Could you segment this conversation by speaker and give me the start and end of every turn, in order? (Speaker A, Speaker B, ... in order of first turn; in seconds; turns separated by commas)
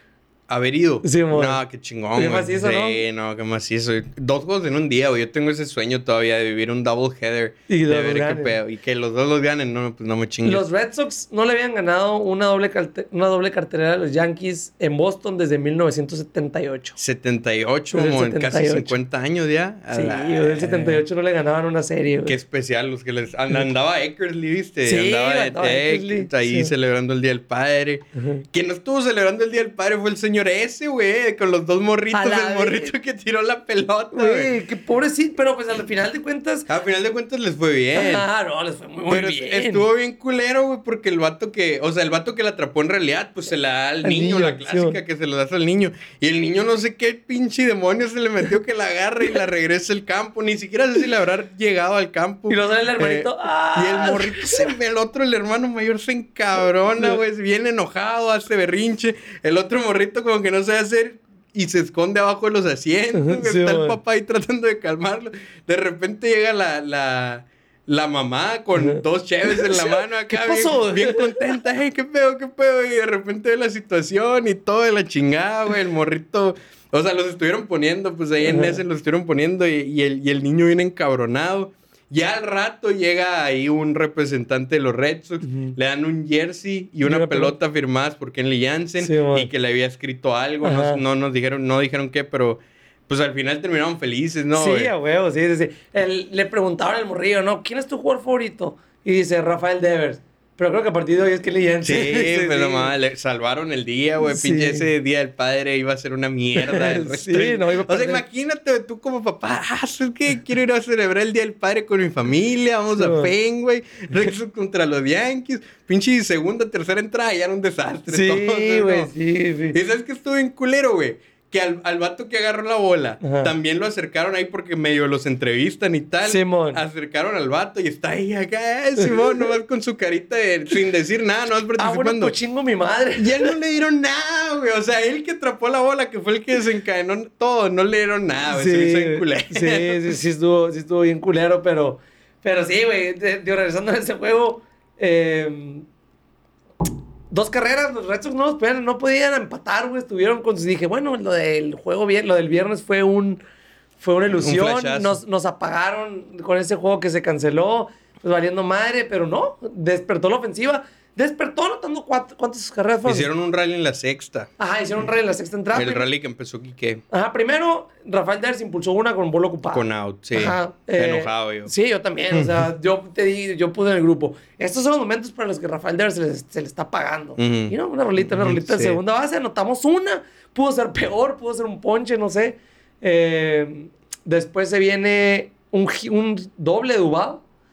Speaker A: 0.5-10.7, Speaker B: 1.0-1.6, Speaker B: 2.1-3.0, Speaker B: 7.7-8.6, Speaker B: 10.4-17.0, Speaker A: 17.0-21.0, Speaker B: 17.9-19.0, Speaker B: 19.9-22.4, Speaker A: 22.3-34.5, Speaker B: 24.9-26.7, Speaker B: 28.2-28.4, Speaker B: 32.1-32.9, Speaker B: 34.1-36.7, Speaker A: 36.7-38.3, Speaker B: 37.9-39.9, Speaker A: 39.1-94.9, Speaker B: 44.0-45.0, Speaker B: 52.5-54.7, Speaker B: 63.1-64.0, Speaker B: 68.8-71.5, Speaker B: 78.4-78.8, Speaker B: 85.4-85.8, Speaker B: 87.0-87.5, Speaker B: 89.0-89.5, Speaker B: 90.6-91.0, Speaker B: 94.5-102.9, Speaker A: 101.8-119.1, Speaker B: 104.2-104.9, Speaker B: 106.6-108.2, Speaker B: 112.9-113.3, Speaker B: 118.1-119.8, Speaker A: 119.7-132.3, Speaker B: 123.2-123.5, Speaker B: 126.3-126.8, Speaker B: 129.0-129.5, Speaker B: 131.8-133.6, Speaker A: 133.2-140.1, Speaker B: 138.5-145.9, Speaker B: 147.3-153.4, Speaker B: 154.0-163.3, Speaker A: 154.4-155.2, Speaker A: 163.1-164.5, Speaker B: 164.6-166.1, Speaker A: 165.7-167.0, Speaker B: 167.1-187.4, Speaker A: 169.7-171.7, Speaker A: 172.3-172.6, Speaker A: 177.4-179.0